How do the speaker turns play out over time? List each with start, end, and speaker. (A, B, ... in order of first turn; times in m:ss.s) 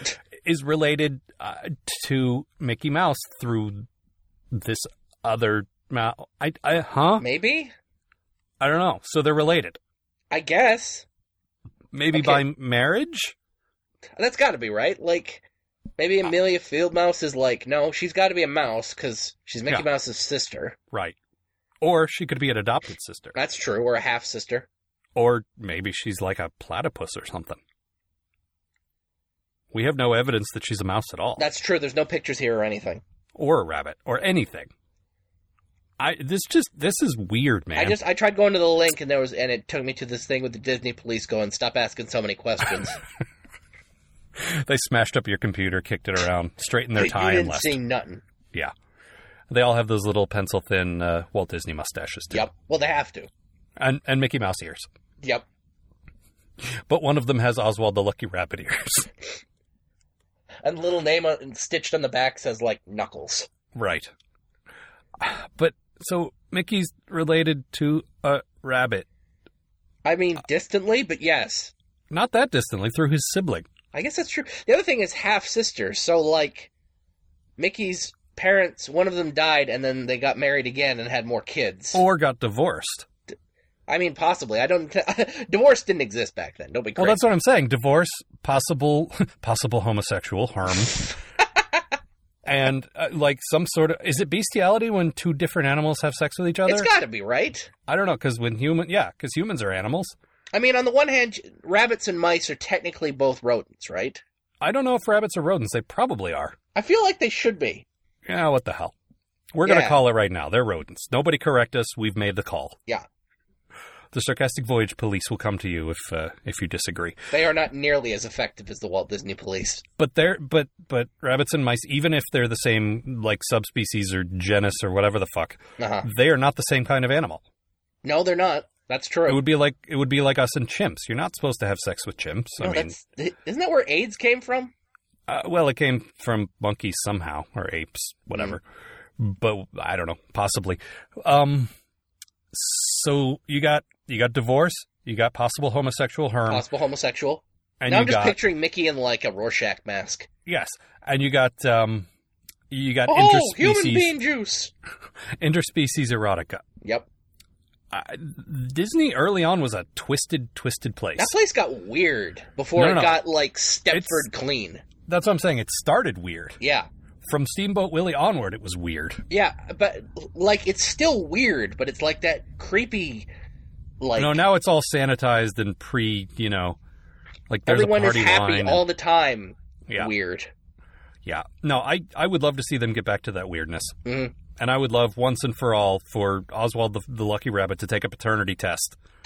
0:00.4-0:03.8 A
0:04.5-0:07.2 A
0:07.2-0:07.7 B
0:08.6-0:09.8 A
0:10.3-0:11.0 B
0:11.9-0:13.3 A
0:12.1-0:12.4 B
0:14.2-0:15.4 B
0:16.0-0:20.8 B
0:21.8-0:23.3 A
0:23.3-0:24.6 B
0:25.1-0:27.6 A
0:29.7-0:31.4 A
0:31.4-0:33.0 B
0:33.4-0:34.7 A
0:36.0-0:38.0 A
0:37.8-0:43.0 B
0:44.4-0:47.8 A
0:47.0-0:48.2 B
0:49.5-0:52.5 A
0:52.3-0:53.3 B
0:53.8-0:54.9 A
0:56.9-0:59.1 A
1:00.6-1:03.5 B
1:03.7-1:04.1 A
1:05.2-1:09.0 A
1:10.0-1:11.7 B
1:12.1-1:13.7 A
1:13.9-1:16.7 B
1:17.6-1:22.0 B
1:21.9-1:23.0 A
1:23.9-1:27.2 B
1:27.0-1:31.1 A
1:32.4-1:36.9 A
1:36.7-1:37.7 B
1:37.9-1:40.1 A
1:40.5-1:44.2 B
1:44.6-1:46.6 A
1:46.8-1:47.8 B
1:48.2-1:48.9 A
1:49.5-1:52.8 A
1:49.6-1:50.0 B
1:54.1-1:57.2 A
1:57.3-1:59.8 B
2:00.0-2:07.4 A
2:05.8-2:06.0 B
2:08.0-2:09.4 B
2:09.3-2:13.0 A
2:12.6-2:14.7 B
2:15.3-2:18.6 A
2:19.2-2:21.7 A
2:22.5-2:26.6 A
2:26.5-2:30.3 B
2:27.8-2:28.4 A
2:30.4-2:32.1 A
2:32.7-2:34.1 A
2:33.1-2:34.7 B
2:35.4-2:36.6 A
2:37.9-2:41.3 A
2:41.2-2:44.8 B
2:42.8-2:43.2 A
2:43.9-2:44.2 A
2:45.0-2:46.6 A
2:46.6-2:46.9 B
2:47.2-2:49.2 A
2:49.3-2:53.3 B
2:54.0-2:54.4 B
2:54.2-2:56.8 A
2:57.5-2:58.8 A
2:57.7-3:00.5 B
3:01.2-3:04.0 A
3:04.0-3:04.3 B
3:04.5-3:09.0 A